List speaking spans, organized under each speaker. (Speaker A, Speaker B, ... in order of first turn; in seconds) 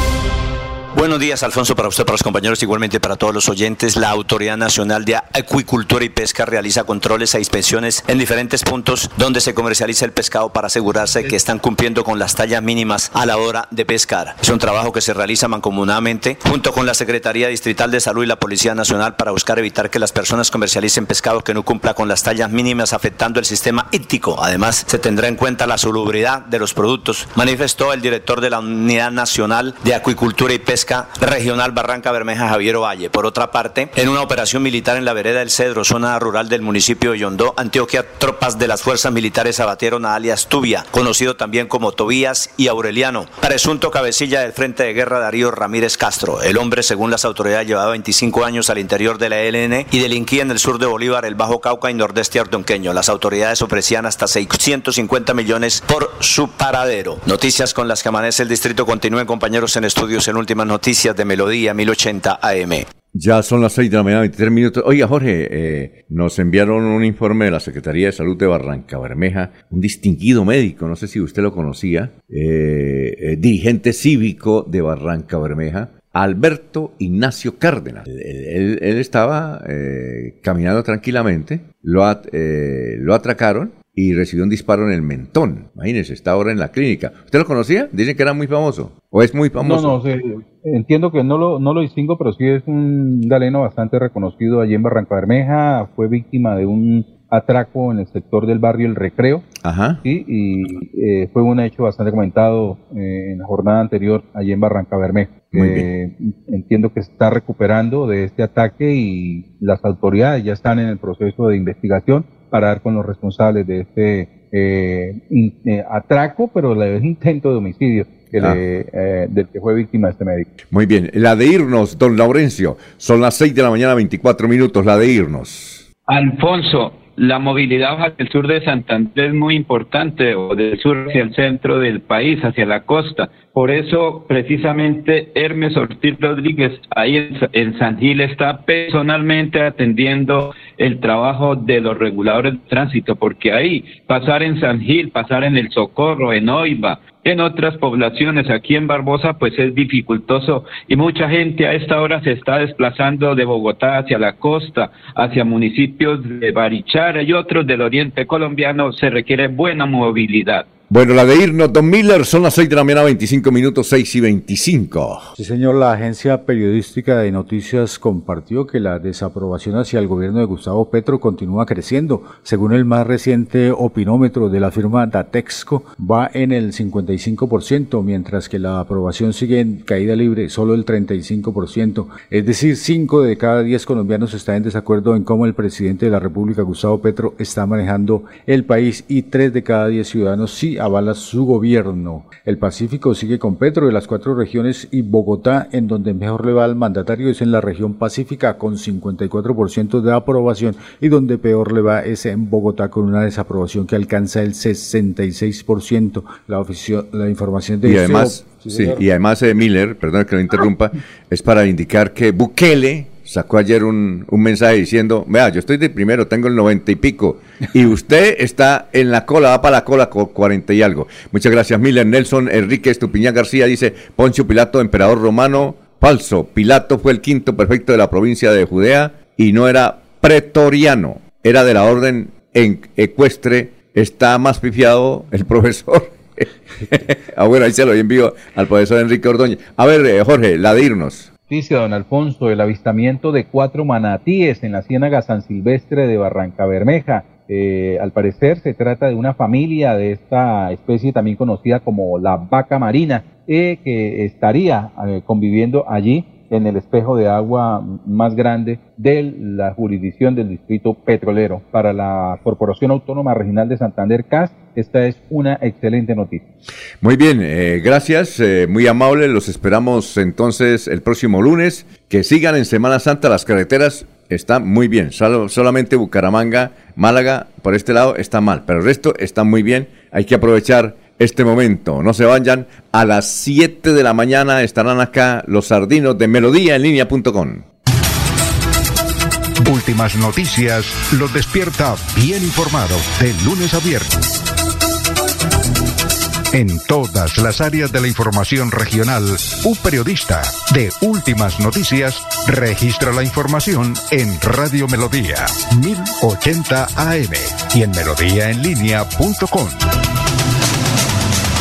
Speaker A: 0.9-62.9
Speaker B: 63.1-90.0, 99.6-100.0, 105.5-105.9, 120.7-125.8, 160.9-165.3, 207.8-241.3, 267.0-287.6
Speaker C: 89.6-99.5, 100.0-120.5, 241.5-266.4
Speaker D: 126.1-160.7
Speaker E: 165.3-209.0
Speaker F: 289.6-294.2, 296.5-309.9